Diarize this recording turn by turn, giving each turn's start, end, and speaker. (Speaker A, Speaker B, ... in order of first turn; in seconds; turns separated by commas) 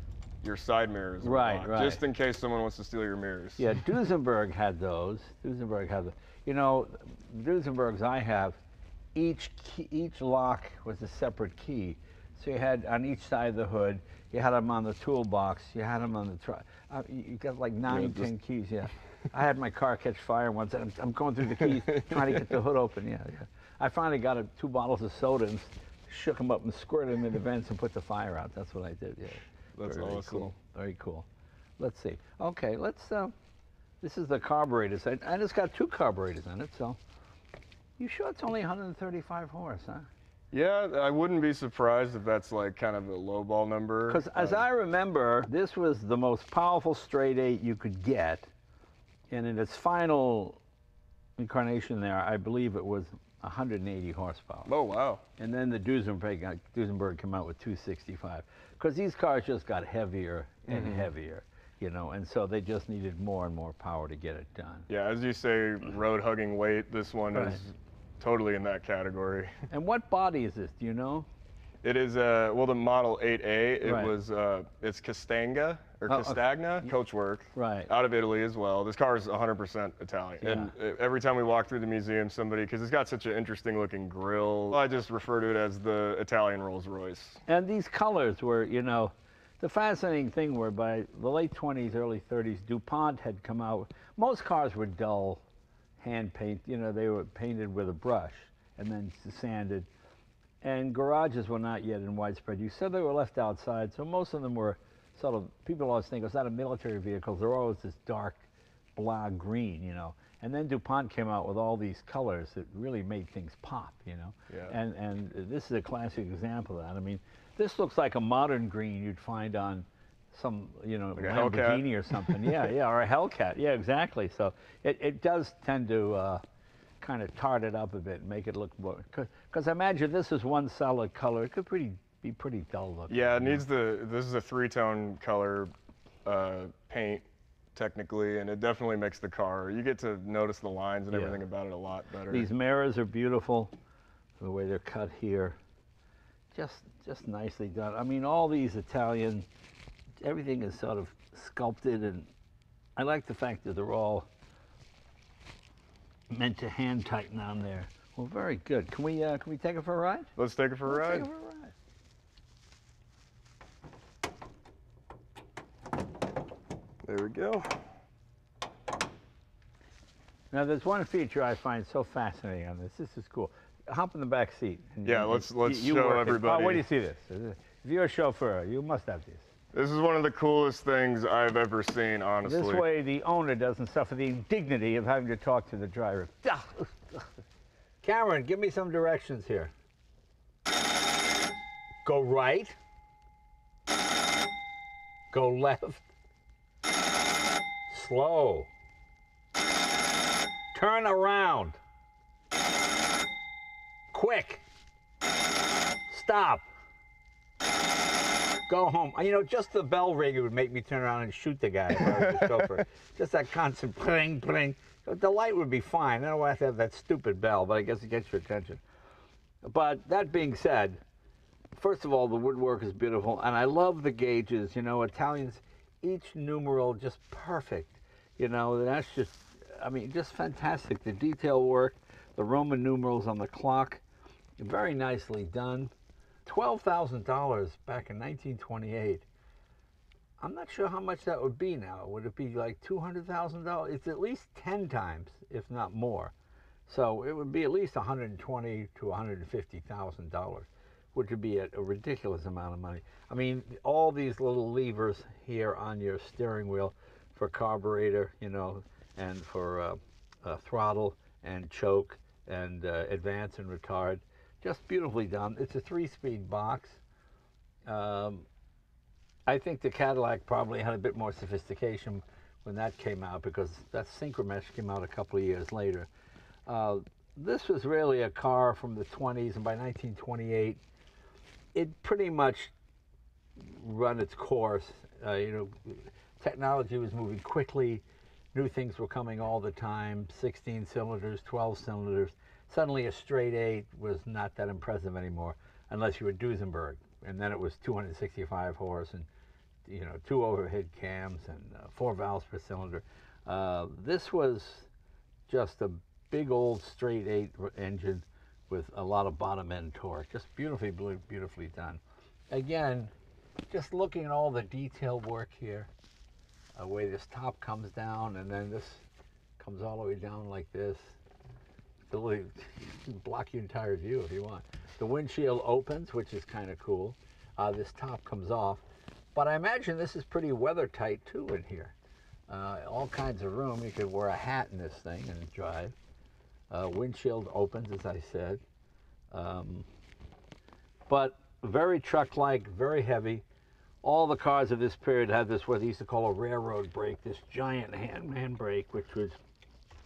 Speaker A: 0.4-3.7, Speaker B: 1.2-2.0, Speaker B: 3.6-8.6, Speaker B: 9.1-31.2, Speaker A: 17.9-18.3, Speaker A: 29.8-30.5, Speaker B: 31.8-33.3, Speaker B: 34.0-37.0, Speaker B: 38.0-40.1, Speaker A: 40.5-44.6, Speaker B: 44.1-48.5, Speaker B: 49.3-50.6, Speaker B: 51.4-54.7, Speaker A: 54.6-55.2, Speaker B: 55.4-64.9, Speaker A: 60.7-61.0, Speaker A: 64.9-69.5, Speaker B: 67.3-67.6, Speaker B: 69.7-71.3, Speaker A: 71.8-87.4, Speaker B: 73.8-74.1, Speaker B: 76.1-76.9, Speaker B: 77.5-77.9, Speaker B: 80.4-80.7, Speaker B: 87.5-95.4, Speaker B: 96.0-99.9, Speaker B: 100.6-126.4, Speaker A: 114.5-114.7, Speaker A: 121.2-122.6, Speaker B: 127.0-133.6, Speaker A: 133.1-135.7, Speaker A: 136.2-142.5, Speaker B: 141.1-141.4, Speaker B: 142.3-143.7, Speaker B: 144.4-145.6, Speaker B: 146.5-149.5, Speaker B: 150.2-152.3, Speaker B: 153.0-154.3, Speaker B: 156.3-160.3, Speaker A: 160.4-161.3, Speaker B: 160.8-161.7, Speaker A: 167.0-167.7, Speaker B: 170.5-179.4, Speaker A: 175.0-176.8, Speaker A: 179.7-182.8, Speaker B: 182.4-187.2, Speaker B: 188.0-189.7, Speaker B: 192.0-192.7, Speaker B: 195.3-196.1, Speaker B: 197.9-198.7, Speaker B: 200.7-201.8, Speaker B: 204.1-204.6, Speaker B: 206.1-206.7, Speaker B: 208.7-218.8, Speaker A: 212.0-212.6, Speaker B: 219.6-221.0, Speaker B: 221.7-234.0, Speaker B: 234.6-235.9, Speaker B: 236.4-239.2, Speaker B: 240.4-246.3, Speaker B: 246.9-267.0, Speaker B: 267.9-268.4, Speaker B: 269.5-276.1, Speaker B: 276.7-280.8, Speaker B: 281.7-282.7, Speaker B: 283.6-288.0, Speaker B: 288.5-299.3, Speaker B: 299.9-304.9, Speaker B: 305.5-313.1, Speaker B: 313.7-315.9, Speaker B: 316.8-319.0, Speaker B: 319.6-321.2, Speaker B: 322.1-328.8, Speaker B: 329.3-331.9, Speaker B: 332.5-335.9, Speaker B: 336.7-338.6, Speaker B: 339.3-339.9, Speaker B: 341.1-343.4, Speaker B: 344.0-349.4